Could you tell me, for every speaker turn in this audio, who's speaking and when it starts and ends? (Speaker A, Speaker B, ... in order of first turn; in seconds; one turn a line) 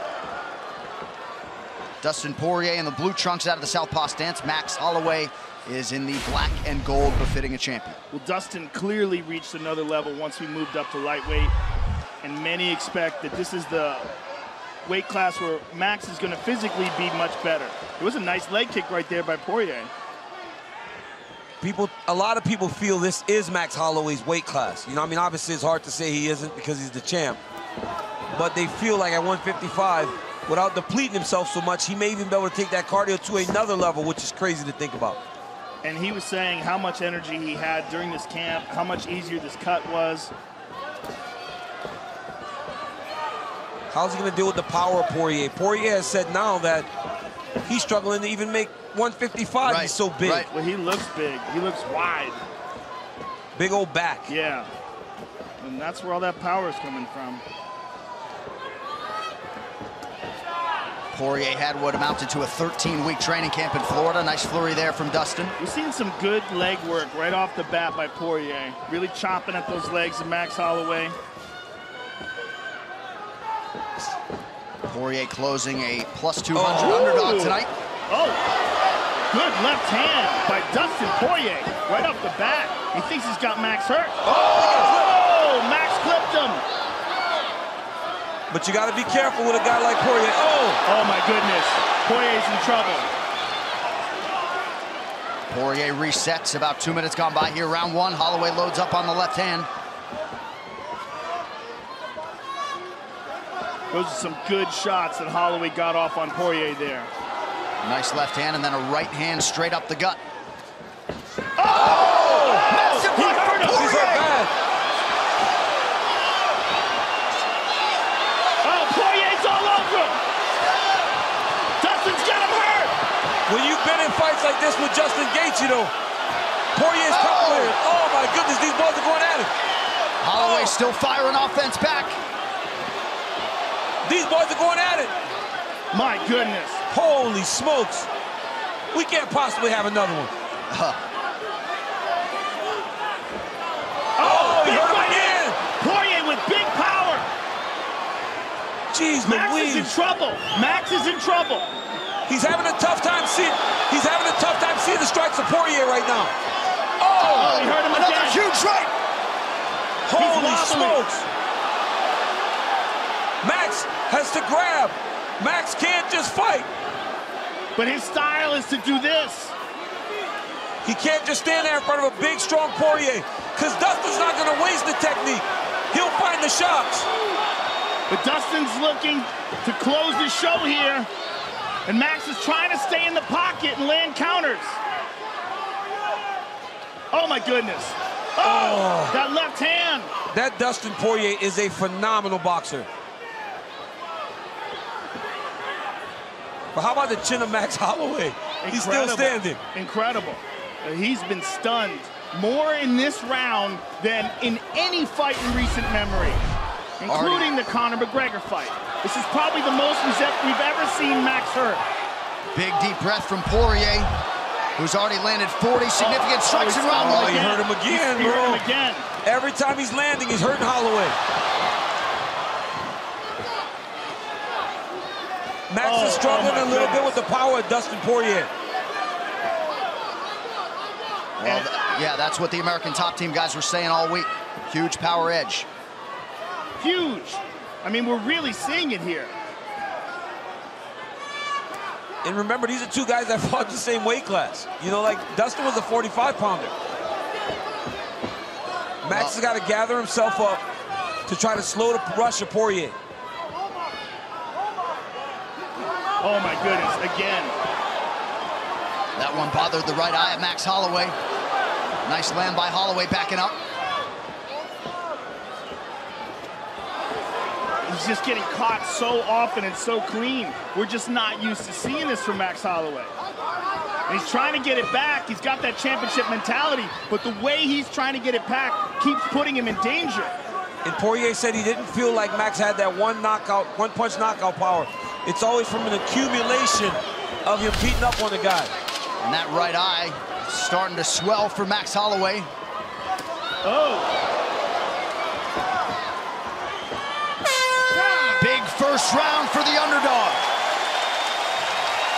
Speaker A: 2.0-8.0
Speaker B: 8.1-11.5
Speaker B: 12.2-14.1
Speaker B: 14.8-19.9
Speaker C: 21.6-27.4
Speaker C: 28.3-35.2
Speaker B: 35.8-40.3
Speaker C: 43.9-46.9
Speaker C: 47.6-50.5
Speaker A: 49.6-50.5
Speaker B: 50.5-52.4
Speaker C: 53.5-54.3
Speaker B: 54.3-54.7
Speaker B: 55.6-57.4
Speaker A: 61.1-65.5
Speaker B: 65.6-71.2
Speaker A: 74.8-77.7
Speaker C: 76.5-77.2
Speaker B: 76.8-77.6
Speaker B: 78.1-78.4
Speaker B: 79.3-86.6
Speaker C: 84.3-85.0
Speaker C: 88.5-90.8
Speaker B: 90.8-93.1
Speaker A: 95.5-99.7
Speaker B: 103.9-107.1
Speaker A: 107.8-110.2
Speaker B: 111.6-114.2
Speaker C: 111.7-112.7
Speaker A: 111.8-114.2
Speaker C: 113.4-114.5
Speaker B: 118.6-120.2
Speaker B: 121.8-122.9
Speaker C: 123.5-125.9
Speaker C: 126.7-129.5
Speaker A: 127.1-127.7
Speaker A: 130.2-132.2
Speaker C: 130.4-130.7
Speaker C: 134.1-135.1
Speaker B: 135.9-136.8
Speaker C: 136.9-138.1
Speaker C: 138.9-140.3
Speaker A: 140.7-141.0
Speaker B: 144.2-147.2
Speaker C: 144.2-145.6
Speaker C: 148.9-149.9
Speaker B: 149.2-151.7
Speaker C: 152.3-156.3
Speaker C: 157.0-157.6
Speaker A: 157.2-158.9
Speaker B: 157.2-158.4
Speaker C: 160.1-161.2
Speaker B: 160.1-161.0
Speaker C: 163.4-166.7
Speaker B: 167.8-169.5
Speaker C: 170.8-177.1
Speaker B: 178.1-181.1
Speaker B: 181.9-184.8
Speaker B: 187.1-190.1
Speaker C: 188.4-189.2
Speaker C: 190.3-192.9
Speaker C: 196.7-199.6
Speaker B: 198.6-206.4
Speaker B: 207.0-211.8
Speaker A: 207.1-207.5
Speaker A: 212.5-214.1
Speaker A: 214.8-217.5
Speaker B: 216.0-219.0
Speaker C: 217.0-218.6
Speaker C: 219.2-221.2
Speaker C: 225.7-228.5
Speaker B: 225.8-227.2
Speaker A: 231.4-235.7
Speaker B: 236.8-239.3
Speaker C: 242.2-246.7
Speaker C: 249.0-250.6
Speaker A: 249.1-249.4
Speaker C: 251.2-252.9
Speaker B: 256.2-257.5
Speaker A: 259.2-261.1
Speaker A: 262.0-263.6
Speaker B: 267.9-273.1
Speaker B: 274.1-280.3
Speaker C: 280.8-288.7
Speaker A: 289.2-292.5
Speaker B: 293.6-294.1
Speaker A: 298.4-300.4